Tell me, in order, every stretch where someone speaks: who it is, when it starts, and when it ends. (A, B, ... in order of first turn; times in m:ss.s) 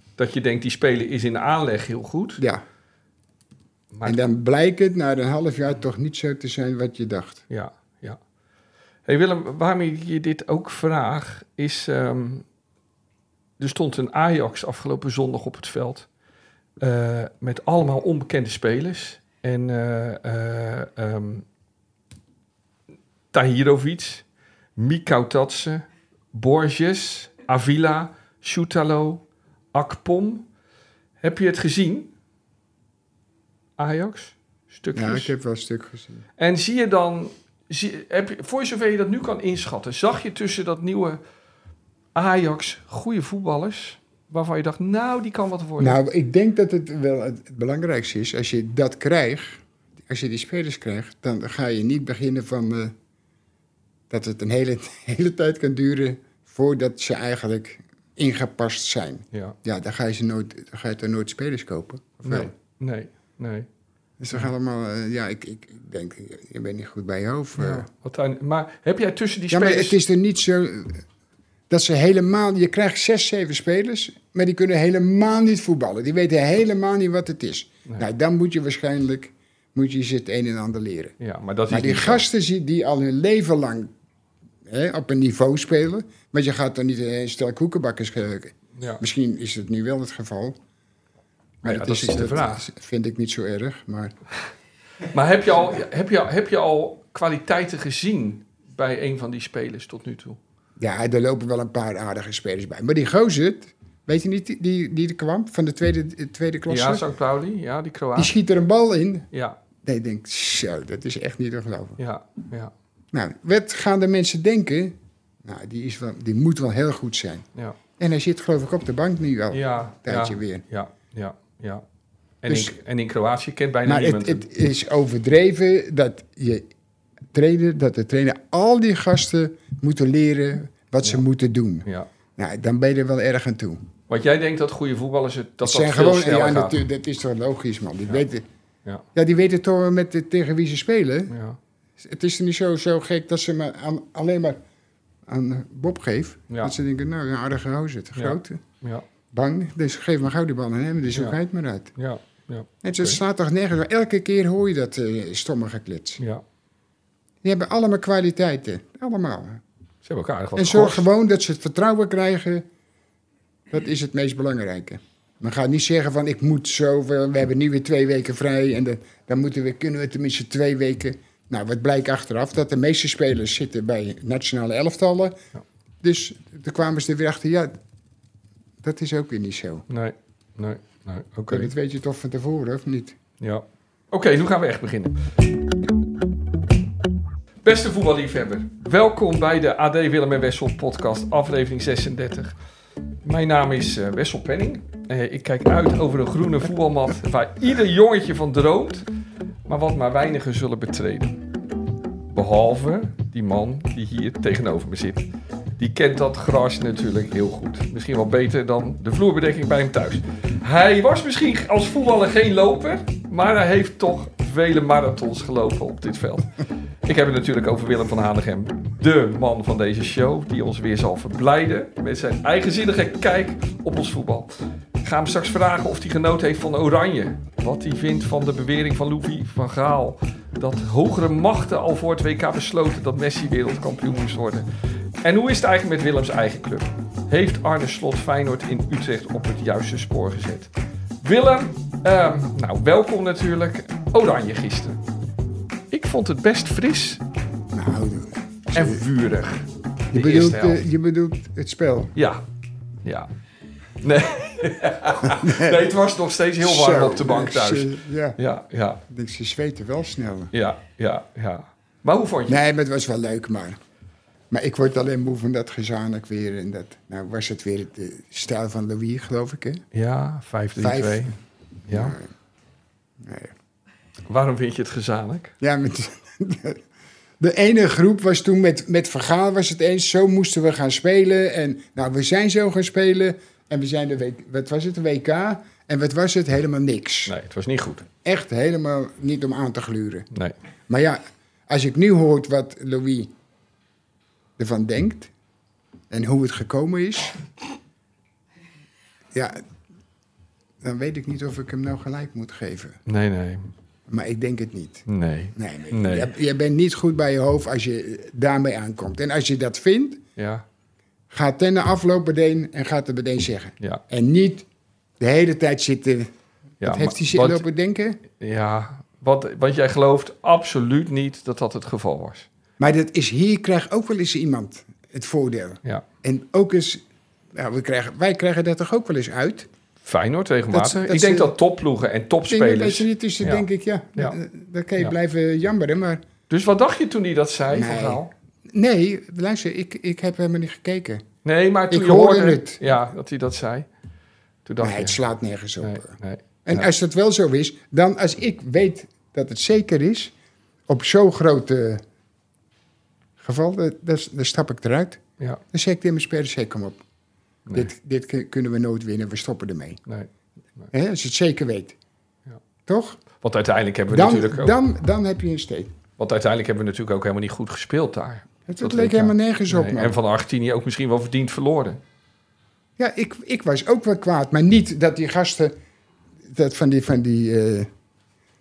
0:00.2-0:02.4 A
0:02.4-0:02.6 B
0:03.9-0:04.3 A
0:04.1-0:07.4 B
0:07.5-0:08.2 A
0:09.1-0:12.4 A
0:13.6-0:16.1 A
0:16.8-0:21.4 A
0:23.3-0:24.2 A
0:24.8-0:30.5 A
0:31.2-0:32.1 A
0:33.8-0:35.3 A
0:35.0-0:36.2 B
0:36.4-0:41.2 A
0:42.2-0:46.0 A
0:45.8-0:52.9 B
0:54.1-1:02.5 B
1:02.2-1:03.7 A
1:04.2-1:07.9 B
1:07.6-1:10.0 A
1:09.5-1:11.0 B
1:11.7-1:21.2 B
1:21.2-1:22.2 A
1:21.7-1:23.9 B
1:24.6-1:30.6 B
1:28.8-1:29.0 A
1:31.6-1:34.1 B
1:31.6-1:32.7 A
1:35.1-1:40.4 A
1:40.8-1:47.1 B
1:46.7-1:48.3 A
1:48.2-1:49.3 B
1:49.3-1:49.6 A
1:49.8-1:52.0 B
1:52.0-1:52.7 A
1:53.1-1:57.5 B
1:58.0-2:00.6 B
1:59.5-2:01.8 A
2:02.4-2:04.5 A
2:02.5-2:02.8 B
2:03.8-2:06.7 B
2:07.3-2:13.8 B
2:14.1-2:16.8 A
2:15.6-2:18.4 B
2:19.2-2:21.3 B
2:21.3-2:21.6 A
2:22.0-2:24.6 B
2:25.3-2:28.6 B
2:26.5-2:26.8 A
2:28.2-2:29.0 A
2:29.3-2:31.9 B
2:32.0-2:33.2 A
2:32.8-2:36.2 B
2:37.4-2:39.6 B
2:40.0-2:41.1 A
2:40.6-2:42.7 B
2:43.7-2:55.4 B
2:56.0-2:57.8 B
2:58.8-2:59.9 B
2:59.9-3:01.7 A
3:01.5-3:03.2 B
3:03.4-3:05.2 A
3:07.6-3:12.6 A
3:13.2-3:19.0 A
3:19.6-3:21.4 A
3:22.3-3:25.3 A
3:25.8-3:36.5 A
3:37.0-3:54.7 A
3:55.2-4:00.7 A
4:01.2-4:05.0 A
4:05.9-4:07.2 A
4:07.7-4:09.0 B
4:08.7-4:10.8 A
4:10.1-4:12.1 B
4:12.2-4:12.4 A
4:13.0-4:13.3 A
4:14.0-4:19.0 A
4:15.2-4:15.8 B
4:16.6-4:18.4 B
4:19.1-4:20.5 B
4:20.5-4:22.6 A
4:22.5-4:23.8 B
4:24.5-4:29.8 B
4:29.9-4:31.4 A
4:30.8-4:31.4 B
4:31.9-4:32.2 A
4:31.9-4:32.3 B
4:33.2-4:33.6 B
4:34.3-4:35.5 A
4:35.6-4:36.8 B
4:37.4-4:47.3 B
4:47.3-4:48.1 A
4:48.2-4:50.3 B
4:50.9-4:53.3 B
4:54.6-4:55.3 B
4:56.1-4:57.4 B
4:59.3-4:59.6 B
5:00.8-5:03.0 B
5:03.1-5:03.7 A
5:04.1-5:10.2 B
5:05.1-5:06.3 A
5:10.4-5:10.6 A
5:11.3-5:14.7 B
5:15.2-5:18.2 B
5:16.8-5:17.6 A
5:18.3-5:22.5 A
5:22.8-5:27.0 B
5:27.5-5:29.7 B
5:30.0-5:34.4 A
5:30.7-5:31.5 B
5:32.5-5:36.2 B
5:36.5-5:38.3 A
5:37.7-5:41.2 B
5:41.4-5:43.9 A
5:41.9-5:42.8 B
5:44.7-5:45.2 A
5:44.8-5:46.1 B
5:45.8-5:46.9 A
5:46.6-5:50.3 B
5:50.9-5:52.0 B
5:53.4-5:57.0 B
5:57.7-6:00.0 B
6:00.1-6:00.9 A
6:00.9-6:02.0 B
6:02.9-6:03.2 B
6:03.4-6:04.8 A
6:04.1-6:05.9 B
6:06.2-6:12.0 A
6:08.7-6:10.2 B
6:13.0-6:15.8 B
6:16.4-6:17.9 B